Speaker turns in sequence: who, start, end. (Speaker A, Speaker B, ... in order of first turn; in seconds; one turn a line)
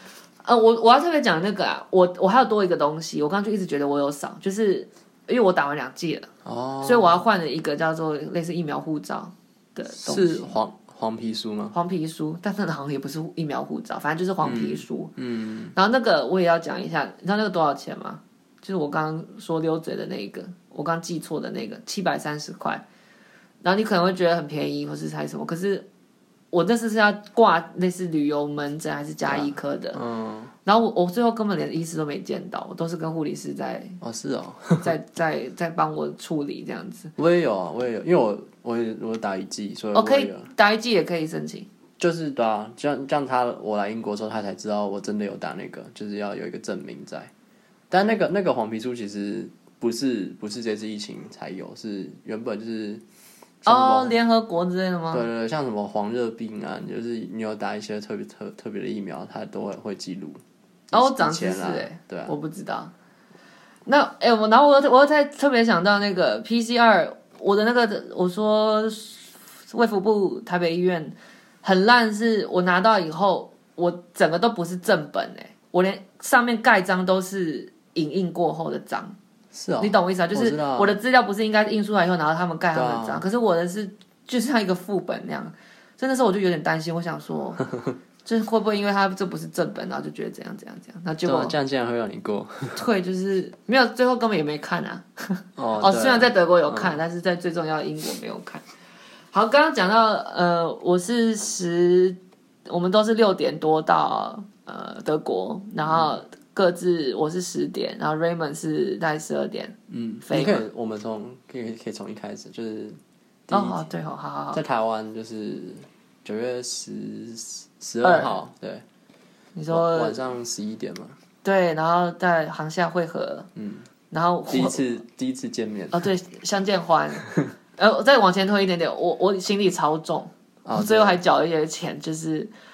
Speaker A: 0.4-6.3
Speaker B: 6.4-7.2
Speaker A: 6.8-10.6
Speaker B: 9.9-11.7
Speaker A: 11.7-15.1
Speaker B: 14.4-15.7
Speaker A: 15.7-22.8
Speaker A: 23.6-25.9
Speaker A: 26.5-30.0
Speaker B: 29.3-30.5
Speaker A: 30.6-34.0
Speaker B: 34.0-34.9
Speaker A: 34.8-37.1
Speaker B: 37.1-40.5
Speaker A: 39.9-41.7
Speaker B: 42.0-47.3
Speaker B: 47.9-53.0
Speaker B: 53.6-54.1
Speaker A: 53.6-55.2
Speaker B: 55.1-62.3
Speaker A: 60.9-62.9
Speaker A: 63.9-79.2
Speaker B: 79.5-81.0
Speaker A: 79.8-87.6
Speaker B: 82.7-83.2
Speaker A: 88.2-91.5
Speaker B: 91.2-92.8
Speaker A: 92.8-98.6
Speaker B: 95.6-97.0
Speaker A: 99.3-110.6
Speaker B: 105.8-106.1
Speaker B: 109.9-113.8
Speaker A: 113.5-114.6
Speaker B: 114.5-118.8
Speaker A: 118.0-118.4
Speaker A: 119.5-120.2
Speaker B: 119.7-121.2
Speaker A: 121.4-123.5
Speaker B: 123.5-123.9
Speaker A: 124.1-124.8
Speaker B: 124.5-126.0
Speaker A: 125.9-132.5
Speaker B: 130.6-131.2